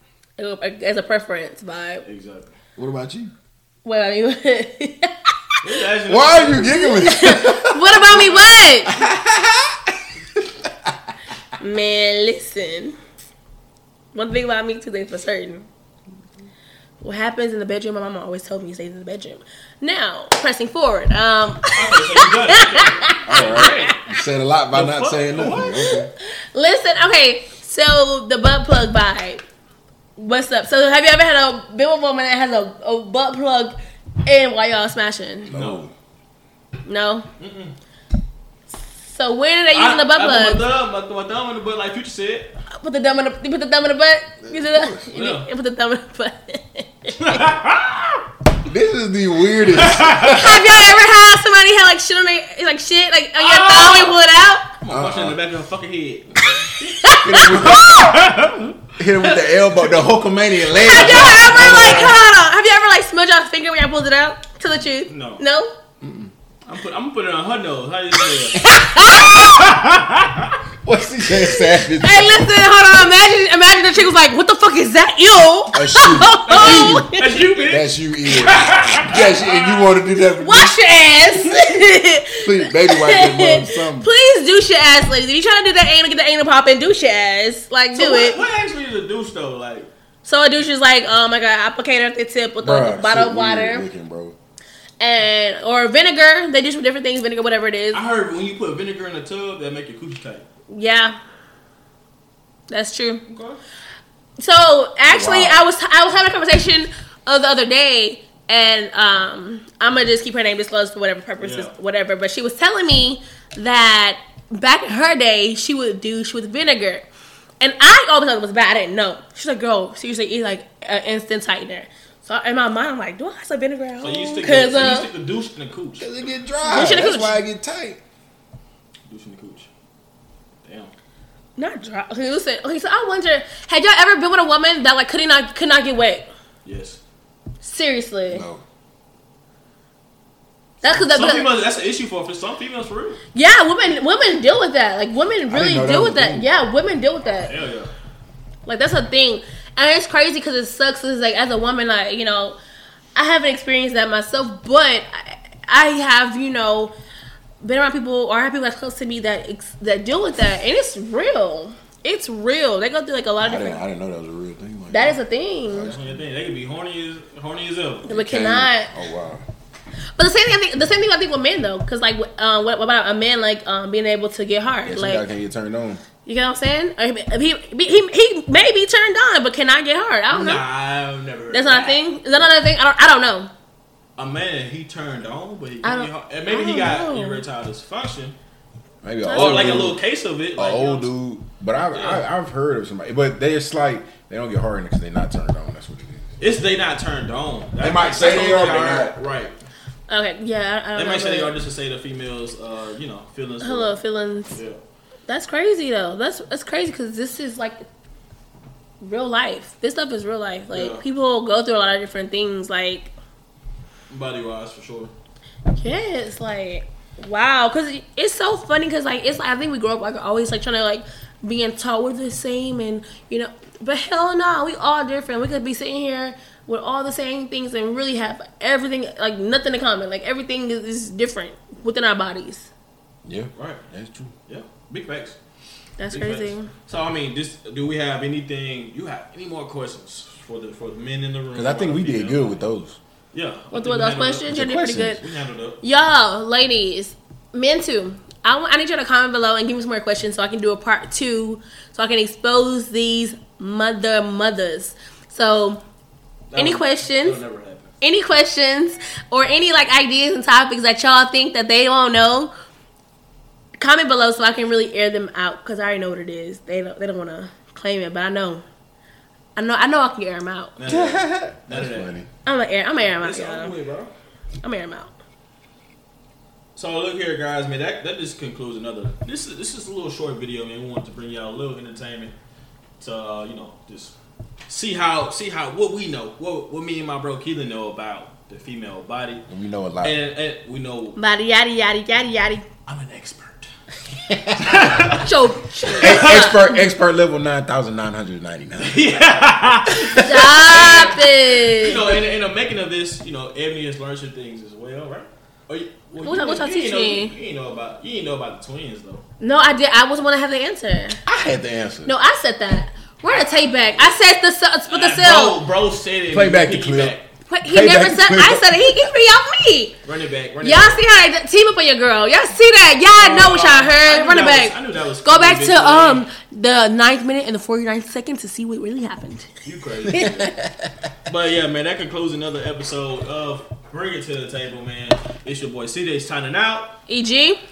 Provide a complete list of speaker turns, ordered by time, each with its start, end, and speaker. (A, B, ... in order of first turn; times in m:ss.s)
0:00.4-0:02.0 A
0:02.0-0:02.5 B
0:02.8-0:03.3 C
0:03.8-0:05.3 A
0:05.6-0:06.9 B
0:06.0-0:11.0 C
0:06.6-0:09.0 A
0:11.6-0:13.0 A
0:14.1-0:15.7 A
0:17.0-0:24.0 A
0:21.7-0:24.0 B
0:23.3-0:26.1 C
0:24.7-0:25.9 B
0:25.8-0:29.4 A
0:30.2-0:35.5 A
0:35.4-0:35.9 C
0:35.5-0:35.8 B
0:36.8-0:37.3 A
0:37.4-0:37.7 B
0:39.0-0:40.6 A
0:39.7-0:42.5 B
0:42.7-0:47.4 A
0:44.4-0:45.1 C
0:45.1-0:45.5 B
0:47.2-0:48.2 B
0:48.6-0:50.7 C
0:49.7-0:50.4 B
0:50.2-0:54.7 A
0:53.4-0:54.2 B
0:54.8-0:59.9 B
0:54.9-0:55.4 C
0:57.0-0:58.2 A
0:57.2-0:58.3 C
0:59.0-1:02.2 C
1:00.8-1:02.1 B
1:00.8-1:05.7 A
1:05.1-1:05.4 B
1:06.0-1:06.3 C
1:06.6-1:10.6 B
1:08.5-1:09.5 A
1:08.6-1:09.5 C
1:10.8-1:12.5 C
1:11.3-1:17.4 A
1:15.7-1:17.1 C
1:16.5-1:19.8 B
1:17.6-1:20.8 C
1:20.4-1:28.4 A
1:22.4-1:24.1 C
1:27.9-1:29.9 B
1:30.2-1:33.8 A
1:32.6-1:34.4 C
1:35.0-1:38.0 A
1:37.9-1:40.4 B
1:40.7-1:41.2 A
1:42.7-1:43.2 A
1:43.3-1:43.6 B
1:44.4-1:57.0 A
1:45.1-1:45.6 C
1:51.4-1:51.7 B
1:57.6-2:05.1 A
2:04.0-2:06.1 B
2:06.0-2:08.0 C
2:06.6-2:07.4 A
2:09.1-2:09.7 B
2:10.6-2:10.9 B
2:11.6-2:16.3 A
2:16.6-2:17.0 B
2:17.6-2:18.4 A
2:18.3-2:18.6 C
2:20.8-2:21.5 A
2:20.8-2:23.2 B
2:23.3-2:27.5 A
2:25.5-2:26.5 C
2:27.4-2:27.9 B
2:28.6-2:32.6 A
2:33.1-2:36.9 A
2:37.6-2:43.8 A
2:43.4-2:46.2 C
2:44.9-2:45.9 A
2:45.8-2:48.1 B
2:48.0-2:48.9 A
2:48.1-2:49.4 C
2:50.2-2:55.2 A
2:54.8-2:56.0 C
2:56.2-3:00.6 A
3:00.3-3:02.0 B
3:01.5-3:03.5 A
3:04.2-3:08.4 B
3:05.8-3:07.4 A
3:09.0-3:10.0 C
3:09.2-3:09.9 A
3:09.3-3:11.1 B
3:10.6-3:16.3 C
3:11.9-3:12.2 B
3:16.4-3:19.5 B
3:17.8-3:19.1 C
3:20.1-3:21.5 A
3:20.9-3:24.0 B
3:23.6-3:24.6 A
3:24.5-3:24.8 B
3:25.3-3:27.8 A
3:29.0-3:33.1 A
3:30.7-3:31.0 B
3:34.1-3:35.1 B
3:35.7-3:52.7 A
3:53.2-3:54.3 C
3:53.6-3:53.8 B
3:54.5-3:55.4 B
3:56.0-3:56.7 A
3:56.1-4:02.6 B
4:01.5-4:03.0 C
4:03.3-4:05.8 B
4:03.7-4:05.2 A
4:04.5-4:05.2 C
4:05.8-4:15.8 A
4:16.5-4:17.9 B
4:16.5-4:17.4 A
4:18.0-4:22.5 A
4:23.8-4:28.6 A
4:29.6-4:30.8 A
4:30.8-4:32.1 B
4:30.8-4:32.3 C
4:32.4-4:33.7 A
4:33.2-4:34.1 B
4:34.6-4:35.1 A
4:36.7-4:42.3 B
4:43.0-4:44.1 B
4:44.7-4:49.4 B
4:49.5-4:50.2 C
4:50.0-4:51.2 B
4:51.2-4:52.6 A
4:52.8-4:53.7 B
4:54.1-4:55.1 C
4:54.6-4:55.4 B
4:55.2-4:56.8 A
4:55.9-4:56.4 B
4:56.0-4:59.2 C
4:58.8-5:09.2 B
4:59.9-5:01.1 C
5:00.1-5:02.0 A
5:06.2-5:07.3 A
5:09.4-5:11.2 A
5:11.2-5:12.1 C
5:12.0-5:15.6 A
5:13.3-5:13.9 B
5:14.9-5:17.2 B
5:16.3-5:18.7 C
5:17.5-5:20.0 A
5:20.0-5:21.0 B
5:20.6-5:29.5 A
5:23.1-5:26.2 B
5:29.6-5:30.3 B
5:30.1-5:30.9 C
5:30.1-5:30.6 A
5:31.2-5:36.9 B
5:37.1-5:37.6 A